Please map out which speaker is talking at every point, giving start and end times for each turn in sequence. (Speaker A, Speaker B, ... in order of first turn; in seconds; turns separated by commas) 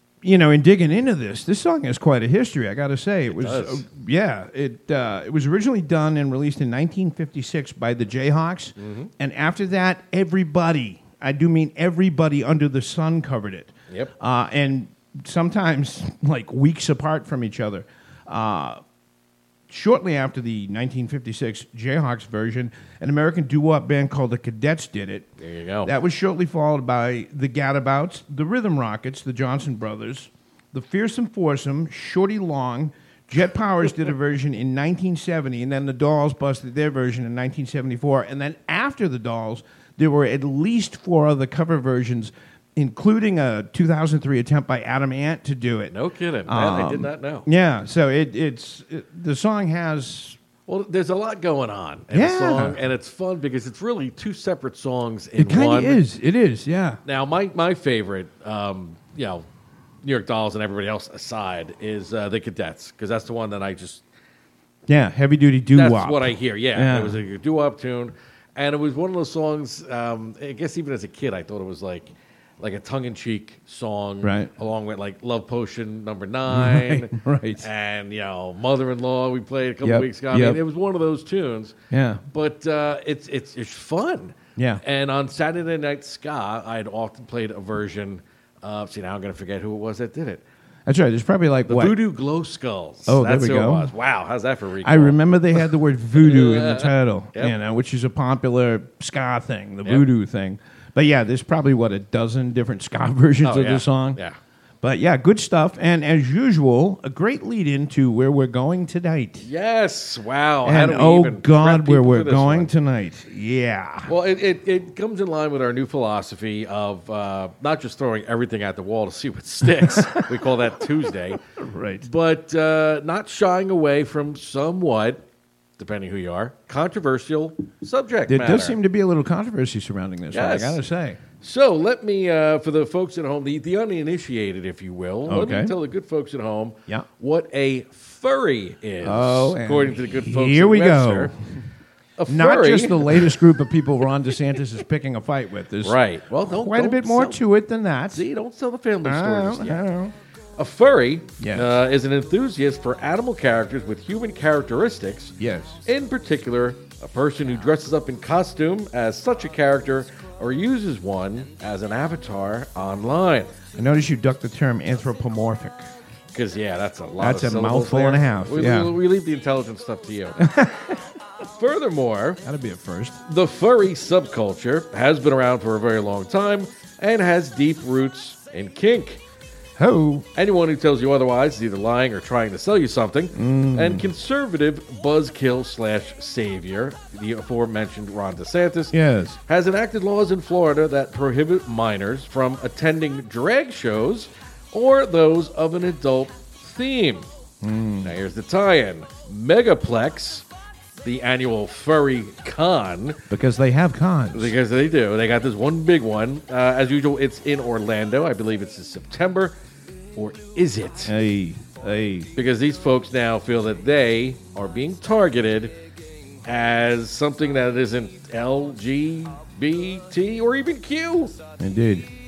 Speaker A: 0.2-18.8, Speaker B: 3.3-3.9, Speaker B: 8.8-9.1, Speaker A: 19.7-25.3, Speaker B: 25.4-25.9, Speaker A: 25.8-50.4, Speaker B: 45.9-47.5, Speaker B: 50.7-56.0, Speaker A: 52.1-52.8, Speaker A: 55.4-57.0, Speaker B: 57.0-59.5, Speaker B: 60.0-64.0, Speaker A: 64.9-67.2, Speaker B: 65.7-81.8, Speaker A: 74.2-74.5, Speaker A: 76.5-77.7, Speaker A: 79.8-80.6, Speaker A: 81.9-82.2, Speaker B: 82.3-90.4, Speaker A: 84.6-84.8, Speaker A: 90.9-92.0, Speaker B: 91.7-95.2, Speaker A: 93.1-93.9, Speaker A: 94.8-104.2, Speaker B: 96.2-97.6, Speaker B: 103.4-104.4, Speaker A: 104.8-109.5, Speaker B: 109.4-112.7, Speaker A: 110.6-114.1, Speaker B: 114.1-121.4, Speaker A: 119.9-120.2, Speaker A: 121.6-122.1, Speaker B: 122.0-125.2, Speaker B: 125.8-128.8, Speaker A: 128.3-131.2, Speaker B: 130.3-130.8, Speaker B: 131.4-141.3, Speaker A: 135.3-135.7, Speaker A: 139.0-141.3, Speaker B: 142.2-143.3, Speaker A: 142.3-148.2, Speaker B: 145.8-147.4, Speaker B: 148.1-149.9, Speaker A: 149.0-150.1, Speaker B: 150.6-155.3, Speaker A: 151.4-151.8, Speaker A: 155.4-155.8, Speaker B: 155.8-163.5, Speaker A: 163.7-165.8, Speaker B: 166.3-170.4, Speaker A: 167.2-168.9, Speaker A: 170.4-171.0, Speaker B: 171.5-172.4, Speaker A: 172.4-173.2, Speaker B: 173.3-179.2, Speaker A: 179.8-180.3, Speaker B: 180.3-189.0, Speaker A: 183.3-184.1, Speaker A: 188.9-189.4, Speaker B: 189.5-197.3, Speaker A: 197.6-198.1, Speaker B: 198.0-200.4, Speaker B: 201.0-203.2, Speaker A: 203.3-204.6, Speaker B: 204.3-209.6, Speaker B: 210.2-211.1, Speaker A: 211.1-212.3, Speaker B: 212.4-215.8, Speaker B: 216.4-221.3, Speaker A: 221.6-222.1